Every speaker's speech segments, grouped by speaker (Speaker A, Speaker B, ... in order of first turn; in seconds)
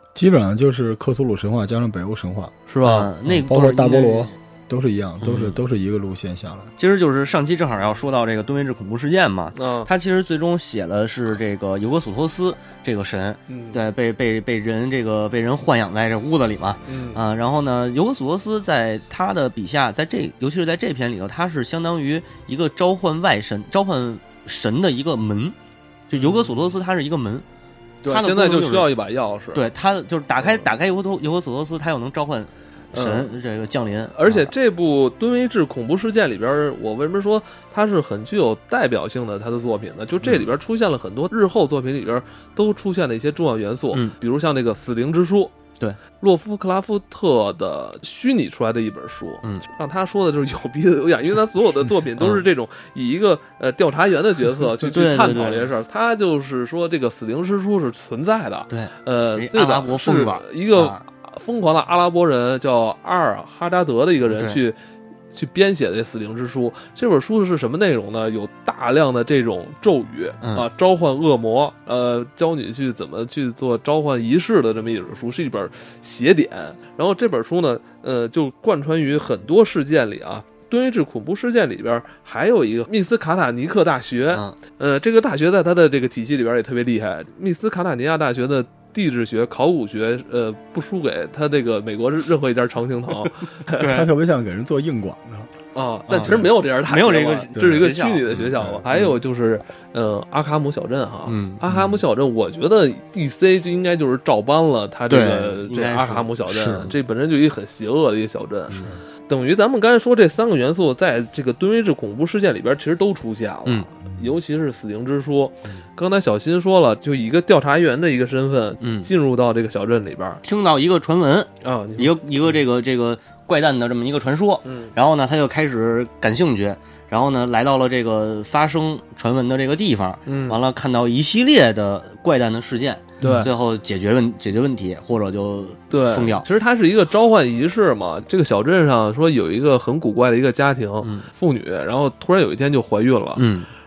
Speaker A: 0.1-2.5, 3.2-6.7, 93.8-95.5, 97.5-97.8, 98.5-98.8, 133.2-133.5
Speaker B: 2.7-3.1, 9.5-9.9, 13.5-13.8, 16.9-17.2, 26.1-26.7, 28.0-29.6, 30.4-30.7, 32.9-33.3, 34.1-45.5, 46.2-64.8, 65.3-93.8, 95.7-120.4, 121.6-122.6, 124.6-124.9, 130.3-130.6, 133.2-133.5, 135.9-143.5
Speaker C: 2.8-4.3, 5.2-5.6, 6.8-25.6, 26.1-27.4, 28.1-28.9, 29.5-34.5, 52.2-52.5, 54.8-55.7, 58.7-61.0, 64.2-64.6, 70.4-70.7, 84.3-84.6, 93.7-94.1, 96.1-98.7, 101.2-102.0, 105.1-106.9, 108.7-109.0, 118.8-119.1, 120.4-136.5, 141.0-141.3, 143.3-143.7